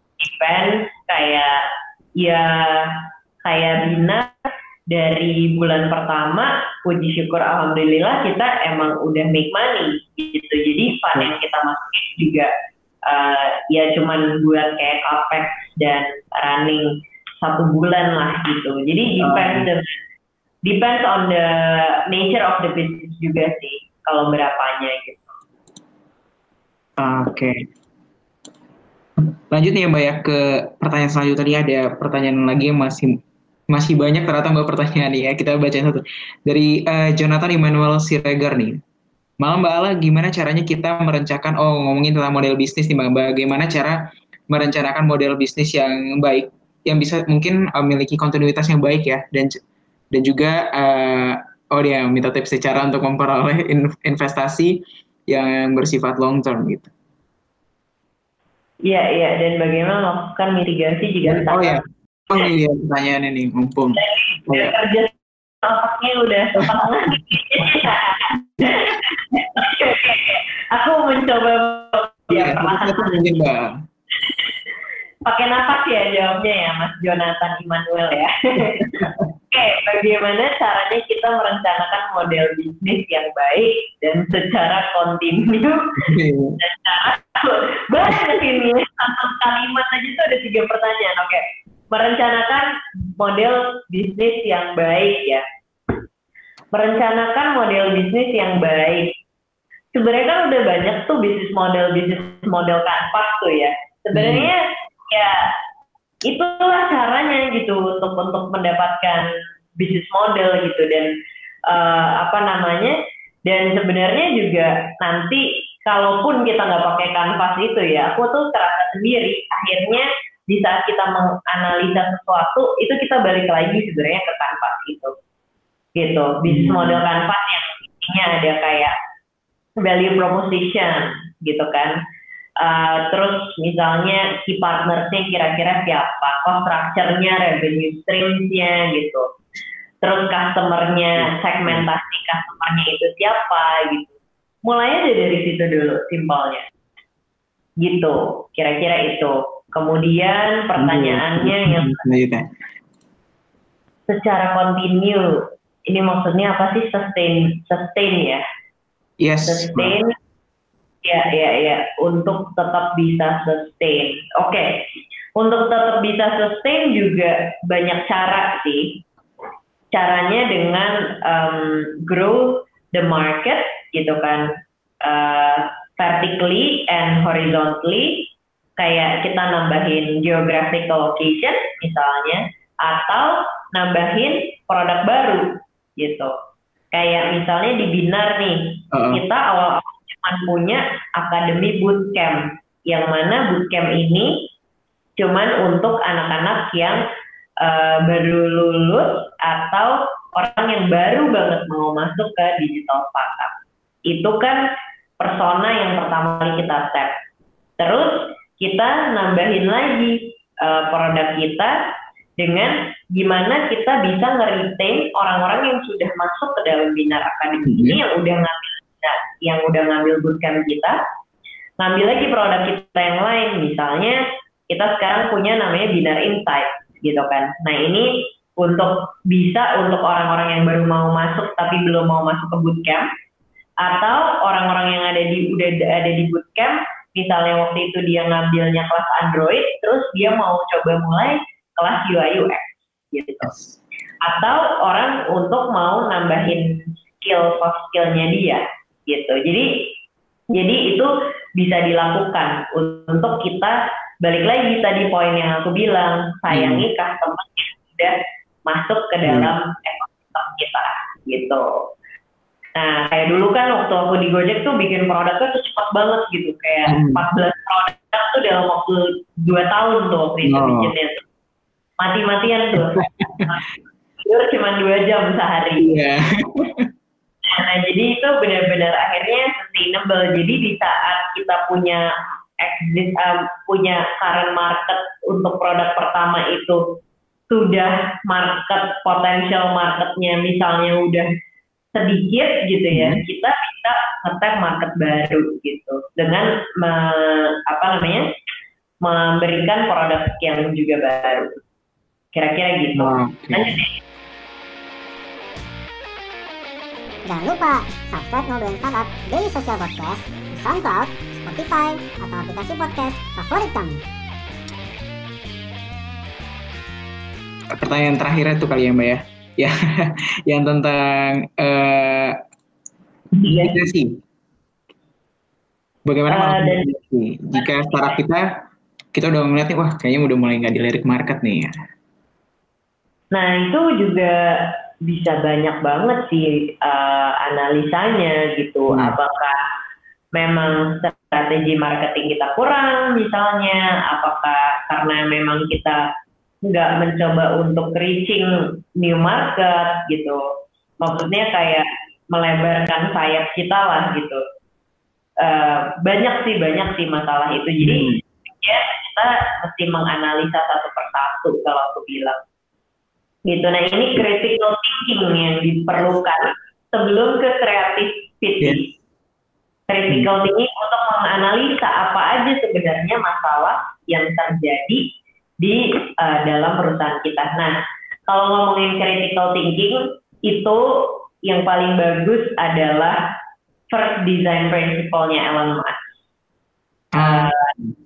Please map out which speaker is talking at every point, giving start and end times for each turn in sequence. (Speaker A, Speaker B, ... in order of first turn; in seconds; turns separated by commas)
Speaker A: 0.2-1.7, Speaker A: 2.2-4.3, Speaker A: 4.9-12.5, Speaker A: 13.1-19.9, Speaker B: 19.2-19.6, Speaker A: 20.6-25.3, Speaker B: 27.0-27.6, Speaker B: 29.2-38.8, Speaker B: 39.4-49.6, Speaker B: 50.1-56.9, Speaker A: 58.8-61.8, Speaker B: 61.2-64.7, Speaker A: 64.0-73.4, Speaker B: 72.3-73.8, Speaker A: 75.2-85.9, Speaker B: 78.7-79.3, Speaker B: 86.0-86.6, Speaker A: 86.6-95.4, Speaker A: 96.7-99.1, Speaker A: 99.9-105.5, Speaker B: 104.1-104.5, Speaker A: 106.2-111.1, Speaker A: 111.7-125.1, Speaker A: 126.0-128.9, Speaker B: 126.5-127.0, Speaker A: 129.8-132.0, Speaker A: 132.6-139.3, Speaker A: 140.0-146.6, Speaker A: 147.8-152.0, Speaker B: 150.8-152.5, Speaker A: 154.1-158.4, Speaker B: 159.2-160.0, Speaker A: 159.4-160.1, Speaker A: 161.0-169.0, Speaker A: 169.9-174.5, Speaker A: 175.0-186.3, Speaker A: 186.9-194.5, Speaker B: 188.9-189.2, Speaker A: 195.2-197.0, Speaker A: 197.6-203.5, Speaker A: 204.1-204.6, Speaker A: 205.2-207.2, Speaker A: 207.8-211.7, Speaker A: 212.4-221.0, Speaker B: 217.6-218.0, Speaker A: 221.8-233.1, Speaker A: 233.8-243.6, Speaker B: 243.4-243.7, Speaker A: 244.2-249.9, Speaker A: 250.5-258.1, Speaker B: 256.5-256.9, Speaker A: 258.6-261.7, Speaker B: 259.2-259.5, Speaker A: 262.7-271.2, Speaker B: 266.9-267.2, Speaker B: 270.5-270.9, Speaker A: 272.0-273.6, Speaker B: 272.9-273.5, Speaker A: 274.2-275.9, Speaker B: 275.8-276.9, Speaker A: 277.4-286.8, Speaker A: 287.5-291.3, Speaker A: 291.9-298.2, Speaker B: 292.9-293.2, Speaker A: 299.0-301.6, Speaker A: 302.3-303.9, Speaker B: 303.0-303.7, Speaker C: 307.2-314.0, Speaker B: 317.7-322.4, Speaker A: 323.4-323.8, Speaker B: 323.4-324.2, Speaker B: 326.1-328.4, Speaker A: 326.3-326.9, Speaker A: 327.5-328.2, Speaker B: 329.1-331.7, Speaker A: 333.3-339.6, Speaker A: 340.3-346.0, Speaker A: 346.6-350.4, Speaker A: 351.0-354.4, Speaker A: 355.4-362.4, Speaker B: 357.8-358.2, Speaker A: 363.5-368.9, Speaker A: 369.9-375.0, Speaker A: 375.6-377.7, Speaker A: 378.3-383.2, Speaker A: 383.9-386.2, Speaker B: 387.1-387.5, Speaker A: 387.1-387.7